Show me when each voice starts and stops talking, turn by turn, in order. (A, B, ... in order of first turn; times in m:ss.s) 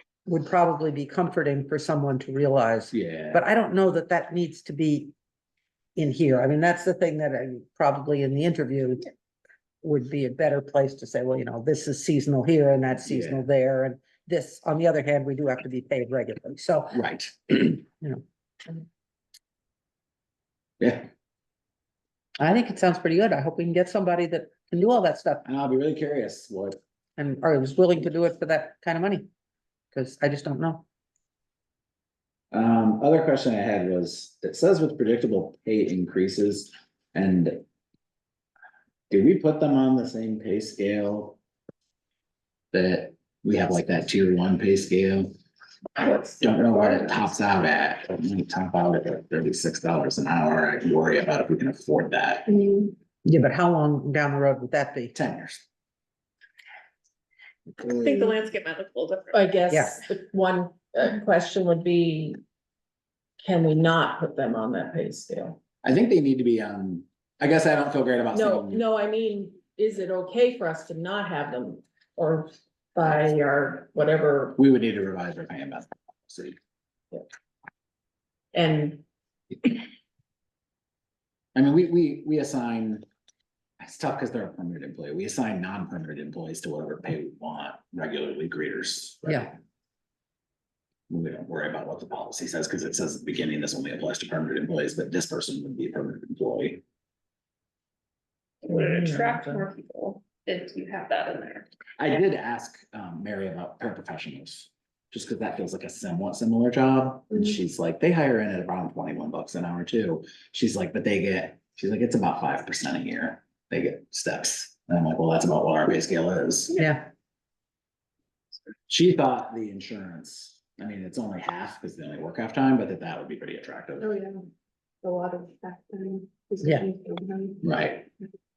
0:00.3-0:05.1 A
0:02.9-0:03.4 B
0:06.0-0:09.1 A
0:09.8-0:17.0 A
0:13.0-0:13.4 B
0:16.9-0:17.8 B
0:20.8-0:21.1 B
0:22.4-0:25.4 A
0:25.4-0:26.8 B
0:27.2-0:29.3 A
0:29.9-0:30.8 A
0:32.5-0:37.6 B
0:39.1-0:41.4 B
0:42.7-0:45.3 B
0:46.2-0:52.5 B
0:52.5-0:52.9 C
0:53.2-0:55.1 A
0:55.1-0:55.6 B
0:57.8-0:59.6 D
0:59.3-1:02.4 E
1:03.4-1:05.6 E
1:05.8-1:08.8 B
1:08.3-1:14.6 E
1:14.6-1:16.6 B
1:18.5-1:19.0 E
1:21.5-1:23.0 B
1:23.8-1:29.5 B
1:29.2-1:29.5 A
1:31.1-1:36.8 B
1:38.6-1:41.7 D
1:38.7-1:39.7 E
1:42.0-1:56.8 B
1:56.7-1:57.1 A
1:58.9-2:04.1 B
2:04.0-2:04.4 C
2:05.0-2:07.6 C
2:07.6-2:08.1 B